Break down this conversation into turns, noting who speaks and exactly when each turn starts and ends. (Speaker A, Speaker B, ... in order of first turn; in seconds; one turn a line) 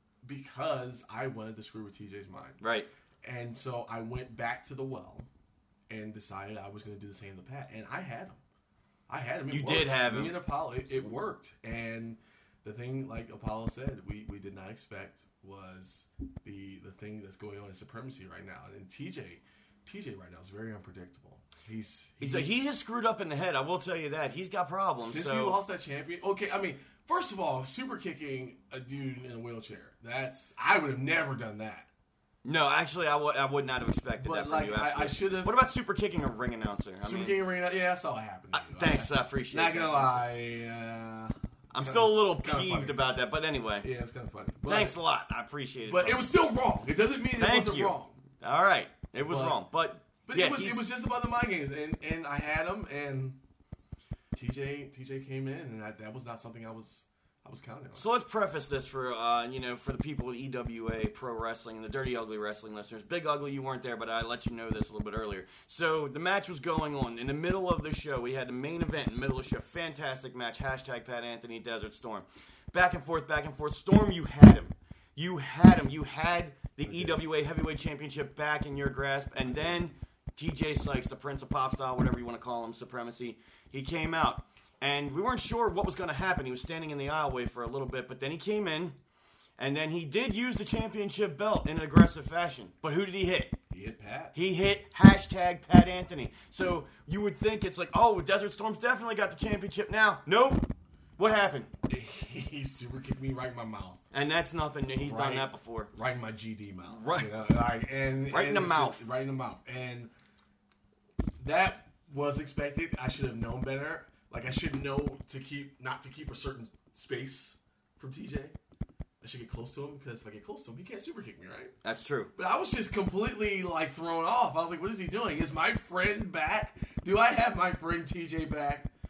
Speaker A: 0.2-2.6
Speaker B: 2.6-2.9
Speaker A: 3.2-5.3
Speaker A: 5.9-8.4
Speaker A: 9.1-22.7
Speaker B: 9.5-10.4
Speaker B: 22.2-25.6
Speaker A: 25.0-31.9
Speaker B: 32.4-37.4
Speaker A: 34.2-35.6
Speaker A: 37.0-43.1
Speaker B: 38.5-40.2
Speaker B: 41.7-43.9
Speaker A: 43.8-45.0
Speaker B: 44.6-46.3
Speaker A: 45.9-48.1
Speaker B: 47.4-50.9
Speaker A: 49.2-49.6
Speaker A: 50.2-53.4
Speaker A: 54.3-58.1
Speaker B: 57.9-89.0
Speaker A: 76.8-77.2
Speaker B: 89.6-93.6
Speaker A: 93.7-94.4
Speaker B: 94.3-101.7
Speaker A: 101.9-104.0
Speaker B: 104.1-105.9
Speaker A: 105.0-110.1
Speaker B: 106.9-107.3
Speaker B: 108.3-109.0
Speaker A: 111.4-118.5
Speaker A: 119.2-121.8
Speaker B: 121.8-122.3
Speaker A: 122.4-128.9